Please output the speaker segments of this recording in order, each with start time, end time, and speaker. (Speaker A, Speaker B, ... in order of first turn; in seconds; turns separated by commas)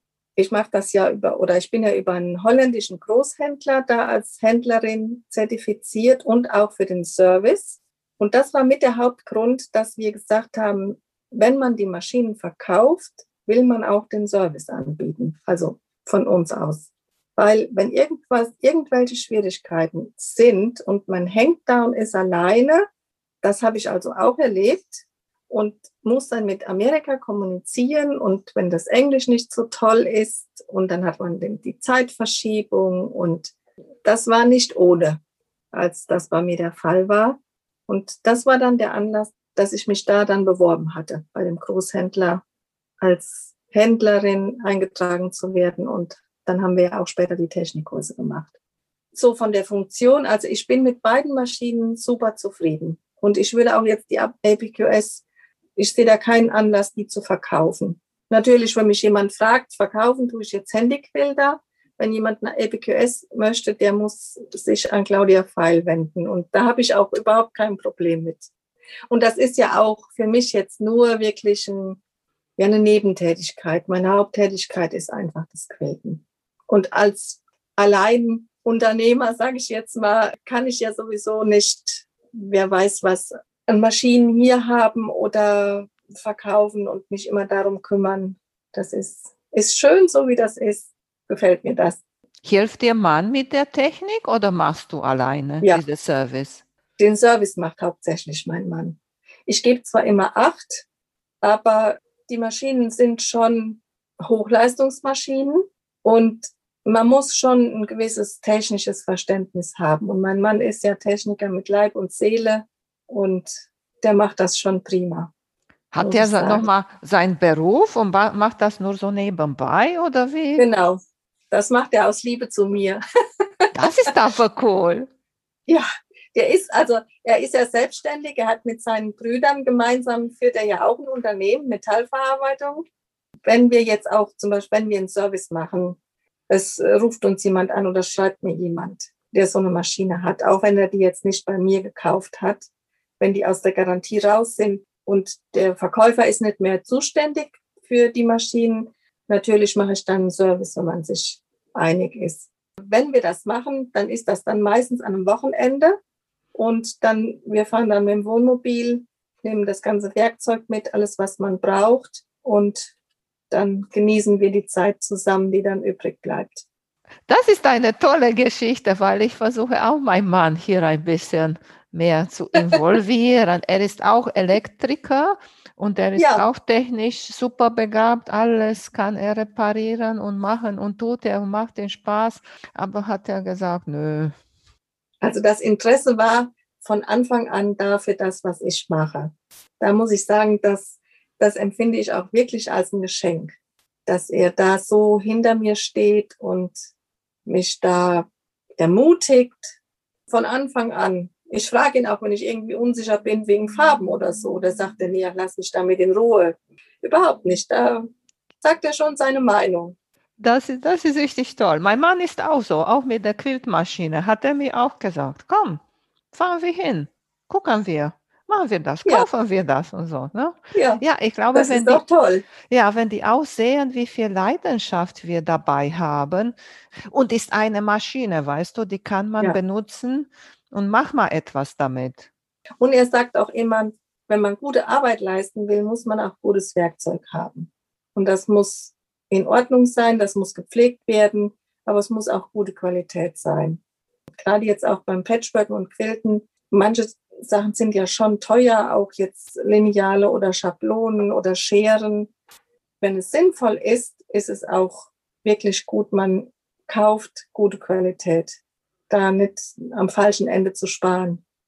Speaker A: 0.4-22.8, Speaker A: 23.4-33.5, Speaker A: 34.0-35.2, Speaker A: 35.7-42.4, Speaker A: 43.0-48.5, Speaker A: 49.1-55.2, Speaker A: 55.8-68.5, Speaker A: 69.1-72.0, Speaker A: 72.6-92.0, Speaker B: 92.4-96.6, Speaker A: 97.0-100.9, Speaker A: 101.4-115.3, Speaker B: 115.9-120.7, Speaker A: 116.0-116.7, Speaker A: 120.6-121.0, Speaker A: 121.5-123.0, Speaker B: 123.7-125.1, Speaker A: 125.7-132.8, Speaker A: 133.4-136.0, Speaker A: 136.5-142.7, Speaker A: 143.2-156.0, Speaker A: 156.5-162.9, Speaker A: 163.5-166.7, Speaker B: 167.3-184.3, Speaker A: 176.2-176.5, Speaker A: 185.2-196.8, Speaker A: 197.5-198.3, Speaker A: 198.8-199.8, Speaker A: 200.3-208.1, Speaker A: 208.6-210.0, Speaker B: 210.4-215.8, Speaker B: 216.3-222.0, Speaker A: 220.7-221.0, Speaker A: 221.5-222.4, Speaker B: 222.7-226.5, Speaker B: 227.1-232.3, Speaker A: 232.8-243.8, Speaker A: 244.4-252.3, Speaker A: 253.0-258.6, Speaker A: 259.1-261.4